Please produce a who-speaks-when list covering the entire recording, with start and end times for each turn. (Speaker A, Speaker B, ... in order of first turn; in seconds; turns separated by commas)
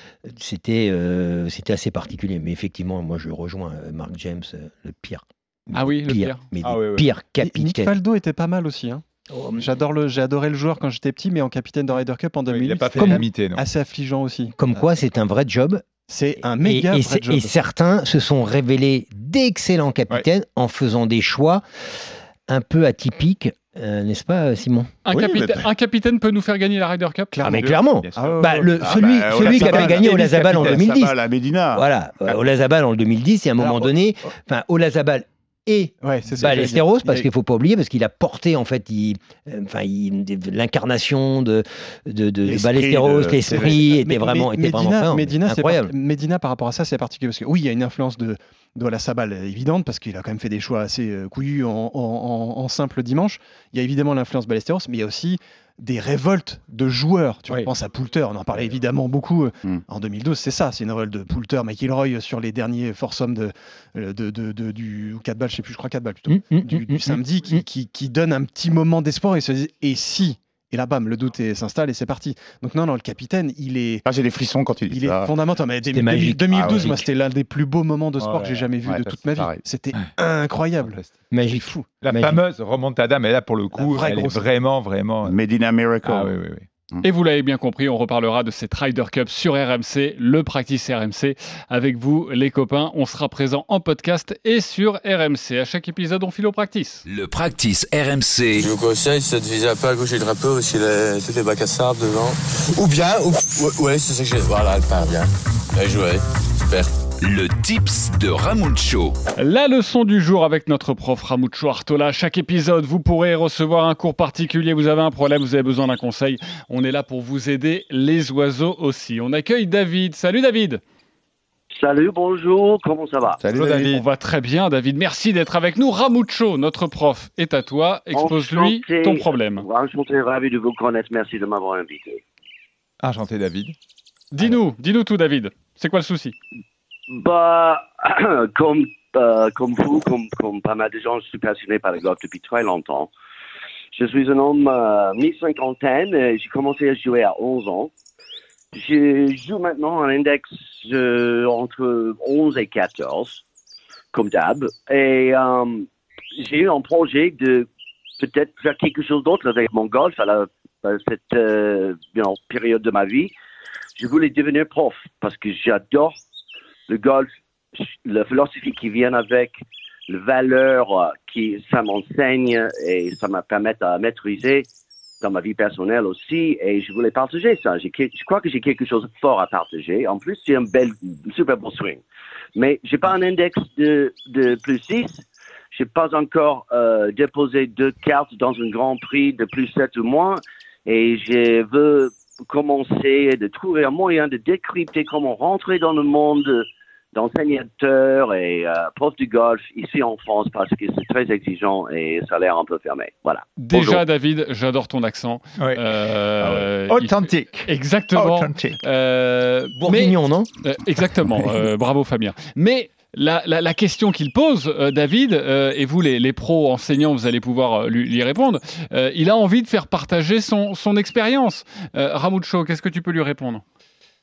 Speaker A: 0.2-7.9, Speaker B: 5.7-6.4, Speaker C: 6.6-7.1, Speaker D: 7.4-9.0, Speaker A: 9.3-9.8, Speaker D: 9.6-14.6, Speaker C: 12.5-13.6, Speaker A: 12.9-13.2, Speaker A: 14.6-15.9, Speaker D: 16.1-17.5, Speaker A: 16.6-21.6, Speaker A: 22.5-24.9, Speaker B: 25.1-27.4, Speaker E: 25.1-25.6, Speaker D: 27.4-28.8, Speaker A: 27.4-31.2, Speaker C: 27.5-30.8, Speaker E: 28.8-31.8, Speaker D: 29.5-30.0, Speaker A: 31.7-45.9, Speaker D: 33.6-33.9, Speaker D: 36.0-37.3, Speaker E: 42.5-43.9, Speaker D: 43.5-74.0, Speaker A: 66.3-67.6, Speaker E: 74.1-75.3, Speaker D: 74.9-81.0, Speaker A: 75.9-77.0, Speaker E: 76.5-76.9, Speaker C: 78.2-79.2, Speaker E: 78.8-79.6, Speaker C: 80.8-81.1, Speaker A: 81.3-82.4, Speaker D: 81.5-81.9, Speaker C: 82.0-85.4, Speaker D: 83.8-84.5, Speaker E: 85.2-86.3, Speaker C: 86.0-86.7, Speaker B: 87.0-97.0, Speaker F: 97.0-98.7, Speaker G: 98.6-106.9, Speaker F: 107.2-109.2, Speaker B: 109.4-120.8, Speaker H: 121.7-123.4, Speaker C: 123.4-124.0, Speaker B: 123.6-129.7, Speaker H: 128.1-132.2, Speaker C: 133.0-133.8, Speaker B: 134.3-136.3, Speaker H: 137.1-143.1, Speaker H: 143.9-147.9, Speaker H: 148.7-153.4, Speaker H: 154.1-157.7, Speaker H: 158.2-163.3, Speaker H: 164.0-166.2, Speaker H: 166.9-169.6, Speaker H: 170.1-174.7, Speaker H: 175.2-182.0, Speaker H: 182.6-204.0, Speaker B: 203.6-223.6, Speaker C: 206.4-208.8, Speaker A: 209.8-210.5